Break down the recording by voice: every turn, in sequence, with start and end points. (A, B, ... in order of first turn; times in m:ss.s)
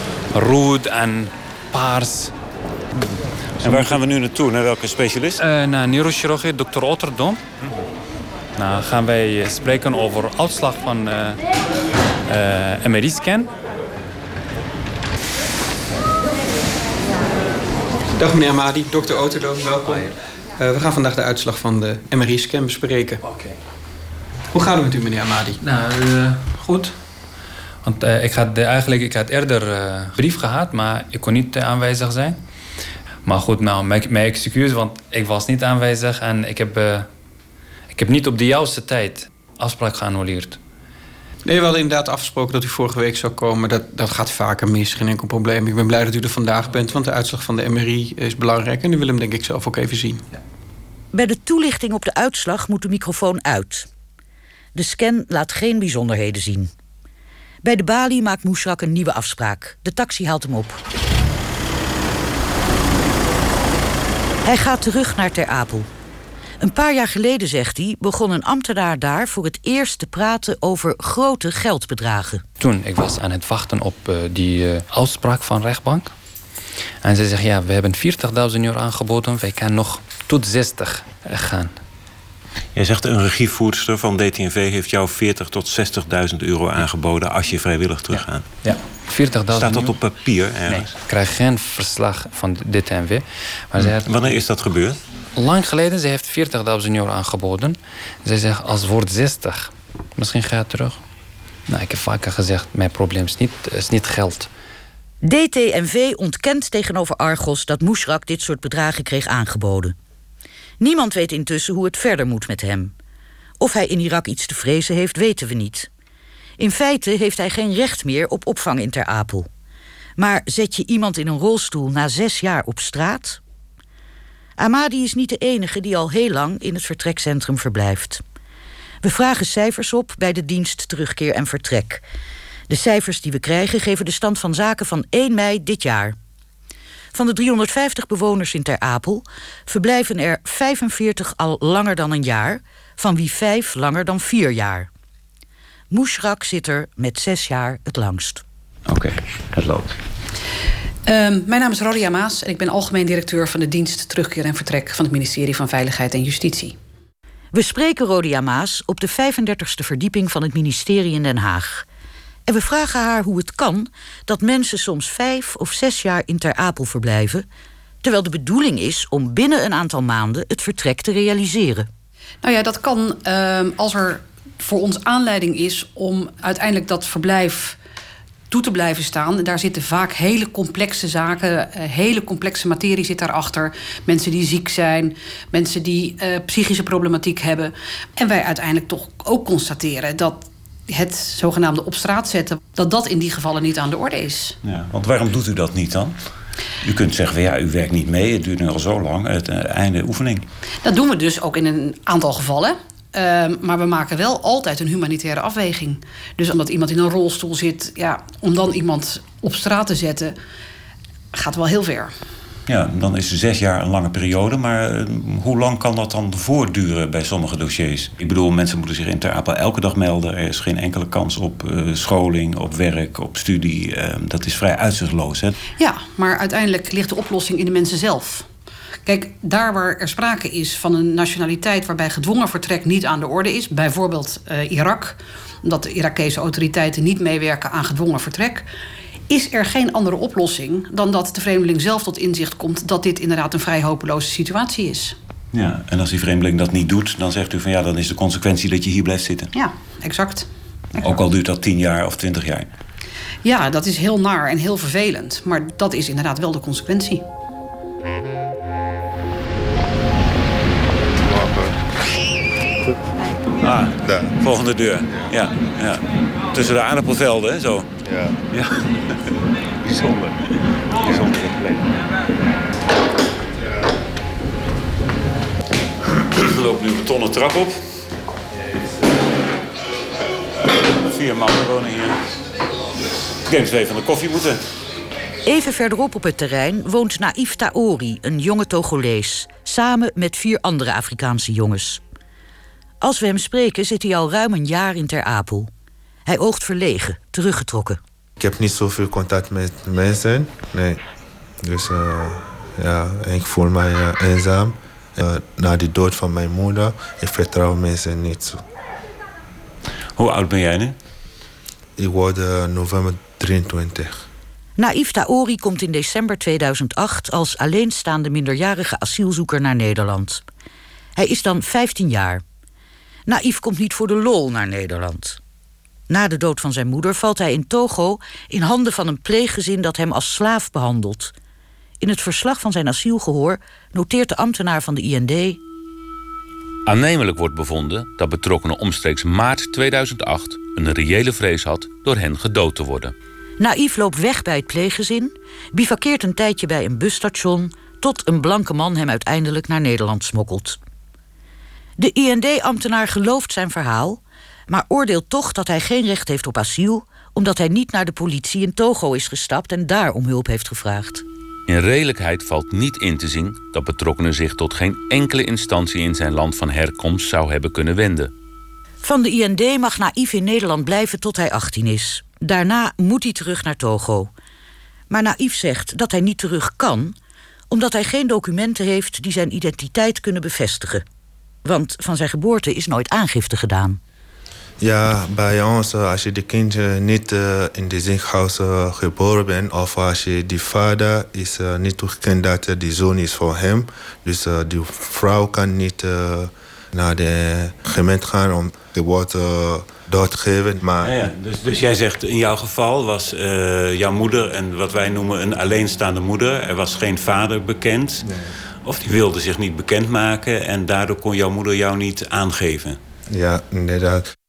0:00.3-0:02.3 A
0:03.6-0:04.0 A
0:03.6-0:05.4 B
0:05.4-0:07.4 A
0:08.6-0:11.4 A
0:12.3-0:13.5 A
0:18.2-0:23.2 C
0:24.5-0:25.6 C
0:25.6-0:26.9 A
0:27.8-0:32.4 A
0:33.2-0:37.1 A
0:37.9-0:40.6 A
0:41.4-0:50.2 C
0:51.1-0:53.9 D
0:54.7-0:56.7 D
0:57.6-1:00.8 D
1:04.4-1:05.9 D
1:06.6-1:12.4 D
1:12.6-1:16.1 A
1:17.0-1:21.8 A
1:22.7-1:28.5 B
1:28.6-1:30.0 A
1:29.5-1:30.9 B
1:30.7-1:34.1 A
1:33.8-1:35.0 B
1:35.4-1:41.0 A
1:41.7-1:44.5 A
1:45.2-1:49.9 D
1:50.8-1:52.9 D
1:53.6-1:55.9 D
1:56.6-1:59.5 D
2:00.2-2:03.4 D
2:04.6-2:08.2 D
2:09.0-2:12.0 D
2:12.7-2:16.2 D
2:17.1-2:24.9 D
2:25.9-2:28.4 D
2:28.9-2:30.0 B
2:31.1-2:36.8 E
2:37.5-2:41.8 D
2:42.5-2:47.4 D
2:48.0-2:51.9 D
2:52.4-2:57.8 E
2:58.5-3:14.6 E
3:14.6-3:16.2 B
3:16.8-3:20.5 B
3:20.8-3:30.4 E
3:31.3-3:32.1 E
3:32.7-3:45.6 B
3:45.8-3:48.5 E
3:49.0-3:58.7 E
3:59.3-4:05.2 E
4:05.5-4:09.5 B
4:09.5-4:11.2 E
4:11.0-4:12.7 B
4:13.4-4:17.2 E
4:21.2-4:21.8 F
4:23.6-4:27.9 B
4:24.0-4:24.3 F
4:28.1-4:28.3 F
4:28.5-4:28.8 B
4:29.8-4:30.4 B
4:31.0-4:31.7 B
4:31.0-4:31.4 F
4:36.3-4:37.8 B
4:40.7-4:42.2 B
4:43.4-4:44.6 B
4:45.4-4:52.0 D
4:53.0-4:55.7 D
4:56.2-4:58.0 D
4:58.4-5:01.0 F
5:01.6-5:08.6 F
5:10.2-5:11.0 B
5:12.0-5:14.2 F
5:14.8-5:20.4 D
5:21.2-5:22.4 D
5:23.3-5:25.4 D
5:26.1-5:31.3 D
5:32.0-5:35.6 D
5:36.8-5:43.1 G
5:43.6-5:50.8 D
5:52.0-6:01.2 D
6:01.7-6:08.3 G
6:09.0-6:14.3 D
6:15.1-6:17.1 D
6:17.7-6:21.0 D
6:21.6-6:24.0 D
6:24.8-6:41.1 F
6:41.0-6:48.2 B
6:48.8-6:53.0 B
6:53.3-6:54.2 F